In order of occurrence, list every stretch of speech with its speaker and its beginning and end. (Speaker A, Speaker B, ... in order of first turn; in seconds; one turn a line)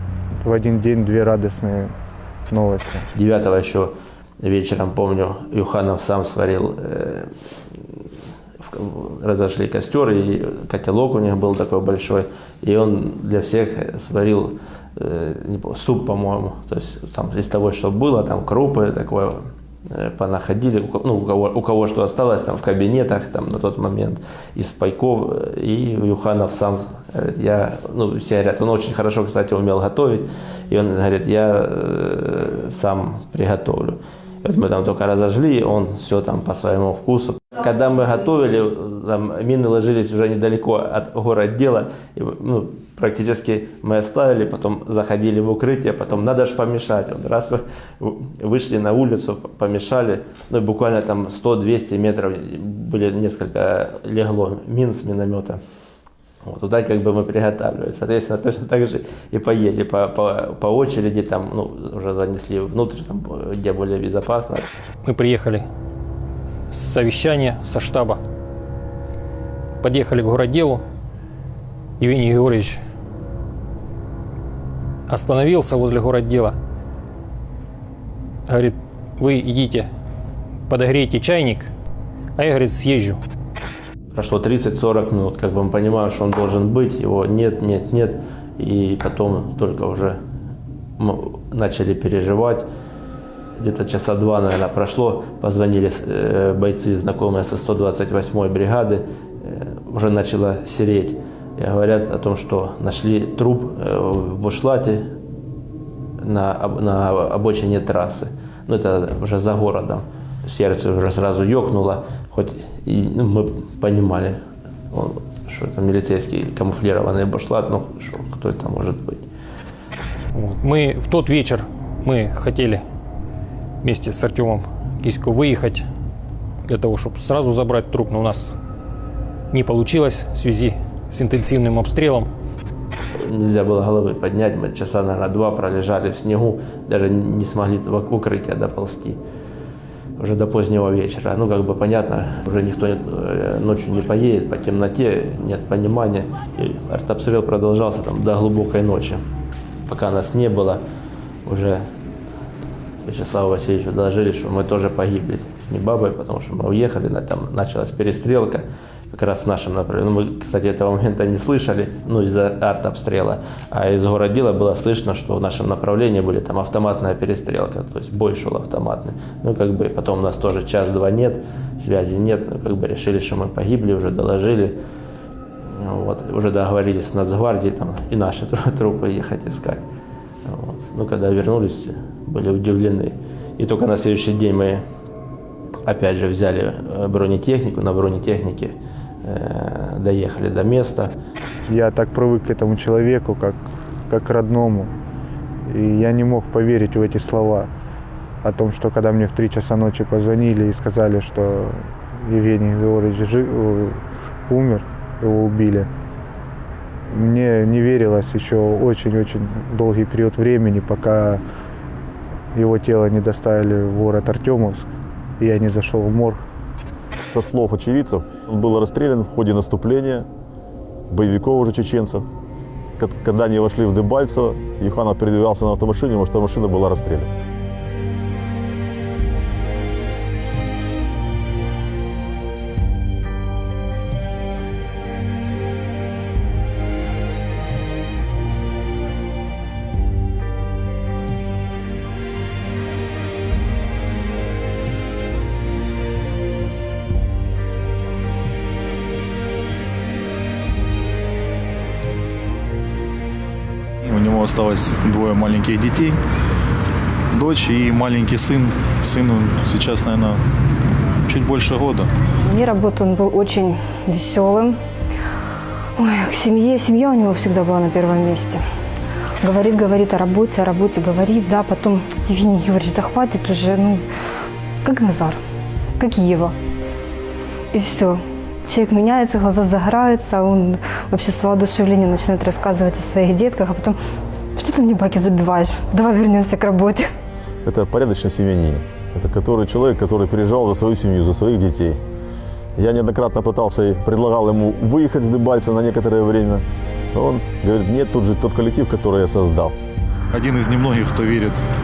Speaker A: 0.4-1.9
Speaker A: 2.5-3.1
Speaker B: 3.1-8.0
Speaker B: 8.6-55.6
Speaker B: 56.4-64.7
Speaker C: 65.0-65.7
Speaker C: 66.7-68.2
Speaker C: 69.8-70.8
Speaker C: 72.0-72.8
Speaker C: 75.1-76.6
Speaker C: 78.5-79.9
Speaker C: 80.7-81.7
Speaker C: 82.4-83.2
Speaker B: 84.1-90.2
Speaker B: 91.0-92.7
Speaker B: 93.5-105.1
Speaker B: 106.2-114.4
Speaker B: 114.9-119.3
Speaker C: 120.3-122.8
Speaker C: 123.8-125.8
Speaker C: 126.7-128.5
Speaker C: 129.5-132.3
Speaker B: 133.1-139.2
Speaker B: 140.2-149.2
Speaker B: 149.9-150.8
Speaker B: 151.5-151.9
Speaker B: 153.1-174.8
Speaker B: 175.6-179.9
Speaker B: 180.4-184.8
Speaker B: 185.8-191.1
Speaker A: 191.7-194.9
Speaker A: 195.7-197.7
Speaker A: 198.4-205.9
Speaker A: 207.1-211.4
Speaker A: 212.5-216.4
Speaker D: 217.2-220.3
Speaker D: 221.1-222.3
Speaker D: 223.0-227.3
Speaker E: 254.0-256.2
Speaker E: 257.3-260.4
Speaker E: 261.3-262.1
Speaker F: 262.4-264.8
Speaker F: 266.0-268.6
Speaker F: 269.4-274.0
Speaker F: 274.8-275.4
Speaker F: 276.0-276.6
Speaker F: 277.7-284.0
Speaker F: 284.6-287.1
Speaker D: 287.6-292.0
Speaker D: 292.8-299.8
Speaker E: 300.3-301.6